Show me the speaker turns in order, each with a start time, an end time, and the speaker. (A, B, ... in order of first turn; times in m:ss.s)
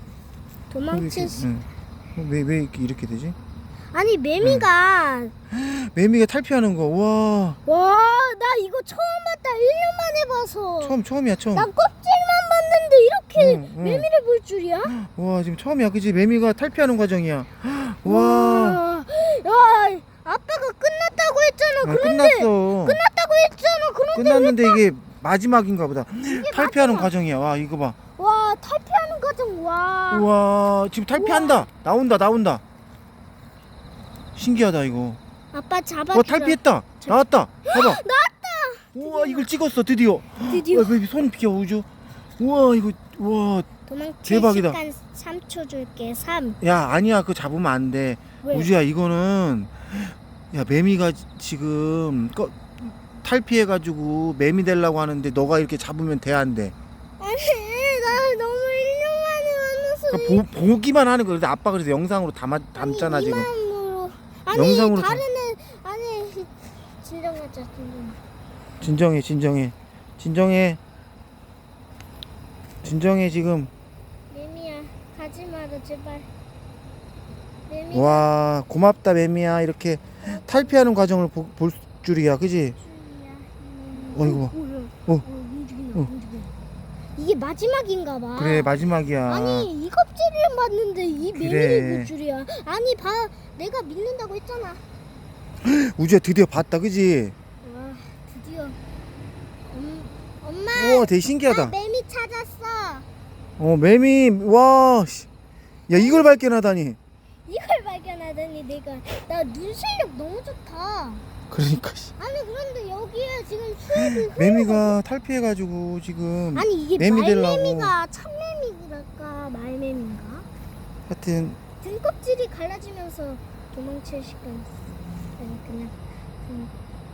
0:00.7-0:01.5 A
0:00.9-0:03.4 B
0:03.9-0:05.3 A
0:04.4-0:04.7 B
0:05.5-0:07.6 B
0:07.7-0:11.0 A
0:10.8-0:11.7 B
0:11.5-0:15.0 A
0:13.4-0:14.1 B
0:14.9-0:18.8 B
0:18.0-0:24.8 A
0:21.8-0:23.0 B
0:24.1-0:28.0 B
0:26.3-0:27.1 A
0:28.2-0:30.3 A
0:30.1-0:32.6 B
0:31.1-0:31.7 A
0:34.4-0:35.2 B
0:35.5-0:39.5 A
0:36.1-0:38.0 B
0:39.0-0:41.9 B
0:40.4-0:41.0 A
0:42.4-0:43.7 B
0:43.9-0:46.6 A
0:44.2-0:44.8 B
0:46.6-0:56.7 B
0:48.4-0:48.7 A
0:57.2-1:00.4 A
1:00.1-1:03.5 B
1:02.8-1:08.2 A
1:04.5-1:05.2 B
1:08.8-1:10.8 B
1:12.8-1:13.7 B
1:14.3-1:16.3 A
1:17.7-1:18.3 A
1:17.9-1:22.8 B
1:20.2-1:20.8 A
1:22.8-1:26.5 A
1:24.1-1:24.5 B
1:27.2-1:34.8 A
1:28.4-1:29.7 B
1:31.4-1:32.1 B
1:35.6-1:37.3 B
1:37.6-1:38.8 A
1:39.7-1:43.0 A
1:40.7-1:41.8 B
1:43.6-1:45.3 B
1:45.9-1:47.0 B
1:45.9-1:46.4 A
1:47.5-1:51.2 A
1:51.5-1:52.1 B
1:52.2-1:55.0 A
1:54.0-1:58.0 B
1:56.6-2:00.5 A
2:01.1-2:01.6 B
2:01.8-2:04.7 A
2:05.4-2:06.7 A